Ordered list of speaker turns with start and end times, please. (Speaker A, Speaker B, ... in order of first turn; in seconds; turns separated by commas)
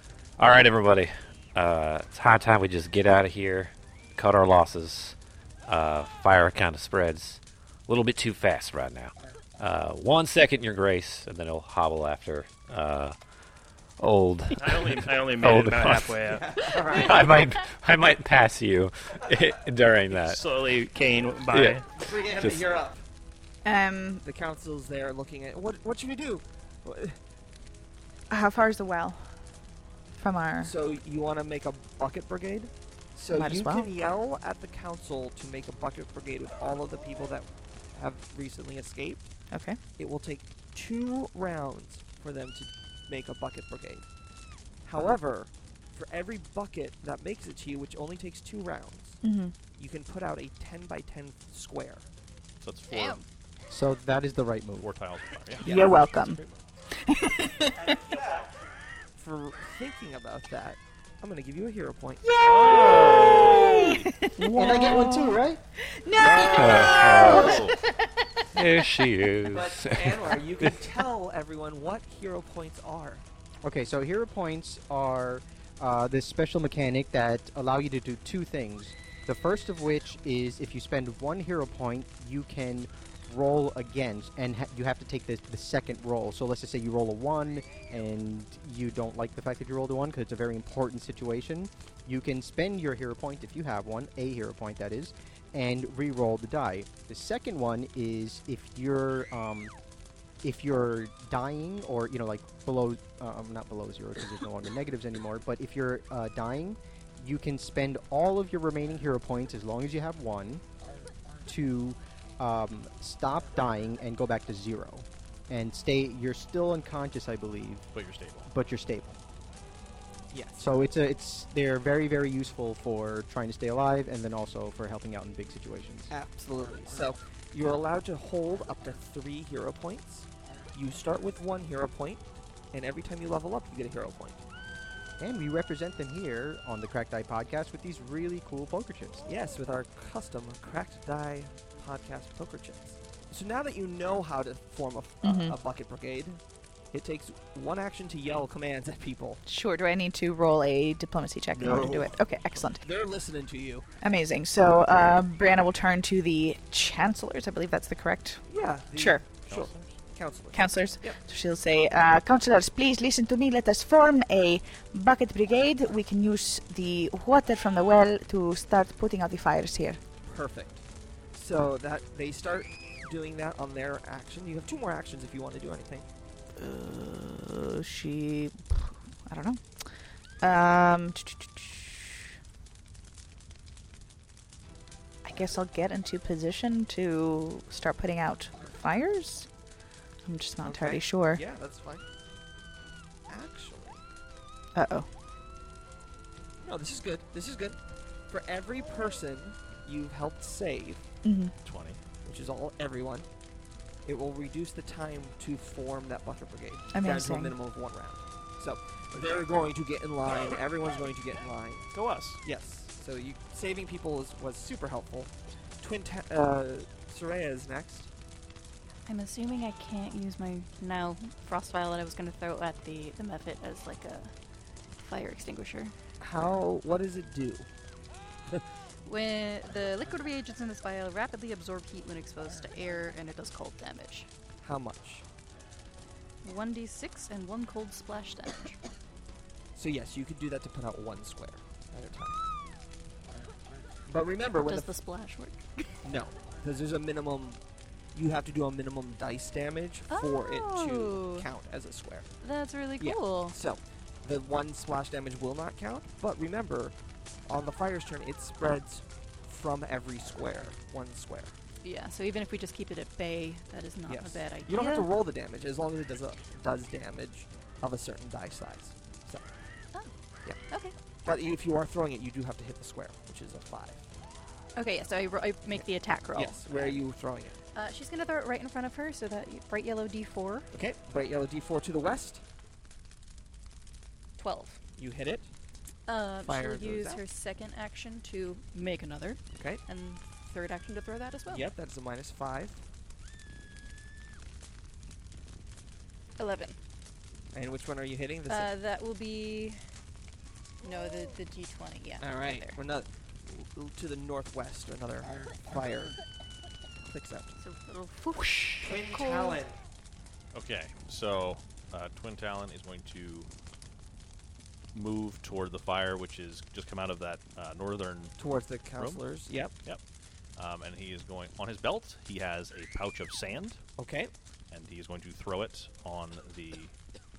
Speaker A: 0.4-13.2, Speaker A: 14.0-16.2, Speaker B: 14.5-16.6, Speaker C: 16.3-17.4, Speaker A: 16.8-20.5, Speaker B: 20.1-21.9, Speaker A: 21.5-22.7, Speaker C: 22.0-23.0, Speaker D: 23.6-24.2, Speaker C: 24.2-27.2, Speaker D: 28.3-29.3, Speaker D: 30.2-30.7, Speaker C: 30.6-39.3, Speaker D: 33.3-33.9, Speaker D: 39.5-39.8, Speaker C: 40.0-44.1, Speaker C: 44.9-49.2, Speaker D: 49.2-49.6, Speaker C: 49.8-52.0, Speaker E: 52.6-53.3, Speaker F: 52.9-53.2, Speaker G: 53.7-54.9, Speaker E: 54.8-56.6, Speaker C: 55.6-56.0, Speaker D: 55.6-56.4, Speaker D: 56.9-58.0, Speaker C: 59.2-62.2, Speaker D: 62.2-68.1, Speaker E: 62.4-64.1, Speaker C: 62.9-63.4, Speaker A: 64.4-65.1, Speaker G: 64.5-65.6, Speaker E: 66.2-67.8, Speaker C: 66.3-67.7, Speaker A: 66.5-67.7, Speaker A: 68.5-70.8, Speaker C: 69.5-73.2, Speaker G: 73.6-99.7, Speaker G: 100.4-110.6, Speaker G: 111.5-117.9, Speaker E: 117.9-118.5, Speaker G: 118.5-119.2, Speaker C: 120.3-120.7, Speaker G: 120.6-126.1, Speaker C: 126.1-132.2, Speaker C: 132.7-134.4, Speaker G: 135.2-139.3, Speaker C: 139.3-146.4, Speaker D: 145.2-145.6, Speaker C: 146.9-149.4, Speaker D: 149.5-152.8, Speaker C: 151.6-152.1, Speaker C: 152.7-153.9, Speaker D: 154.0-158.4, Speaker C: 158.5-161.2, Speaker D: 159.0-159.2, Speaker E: 159.5-159.9, Speaker D: 160.5-170.0, Speaker C: 170.2-170.8, Speaker C: 171.3-176.1, Speaker D: 176.6-182.3, Speaker D: 185.2-189.5, Speaker D: 190.3-191.4, Speaker C: 190.6-192.0, Speaker C: 193.3-194.0, Speaker D: 194.8-195.1, Speaker C: 196.6-197.8, Speaker C: 198.3-201.1, Speaker D: 201.2-201.5, Speaker E: 201.6-202.0, Speaker C: 202.2-203.3, Speaker C: 204.1-211.9, Speaker D: 206.9-207.5, Speaker E: 211.9-212.4, Speaker C: 212.4-218.1, Speaker F: 219.1-224.3, Speaker F: 225.0-225.9, Speaker C: 226.2-227.7, Speaker F: 229.1-234.3, Speaker C: 234.6-235.2, Speaker F: 236.4-238.8, Speaker C: 239.8-242.4, Speaker C: 244.1-244.9, Speaker F: 244.7-245.8, Speaker C: 246.0-247.6, Speaker C: 248.1-252.3, Speaker F: 250.1-251.5, Speaker F: 252.4-253.6, Speaker C: 253.0-256.9, Speaker C: 257.5-261.6, Speaker F: 261.8-265.1, Speaker C: 264.1-269.5, Speaker F: 270.7-270.9, Speaker C: 271.2-274.0, Speaker F: 274.8-277.0, Speaker C: 276.3-277.6, Speaker F: 277.7-280.7, Speaker C: 280.7-282.4, Speaker F: 284.4-284.8, Speaker C: 285.0-285.5, Speaker F: 286.1-291.7, Speaker C: 286.4-287.2, Speaker C: 289.6-289.8, Speaker C: 291.5-292.8, Speaker F: 296.4-296.8, Speaker C: 297.5-298.7, Speaker F: 298.5-299.8, Speaker F: 300.8-302.8, Speaker C: 302.2-306.1, Speaker C: 307.0-307.6, Speaker F: 307.6-309.6, Speaker C: 308.8-309.8, Speaker E: 310.5-313.5, Speaker E: 314.9-318.4, Speaker C: 318.4-319.7, Speaker E: 319.0-319.2, Speaker E: 320.6-323.8, Speaker C: 324.0-324.3, Speaker E: 324.7-326.9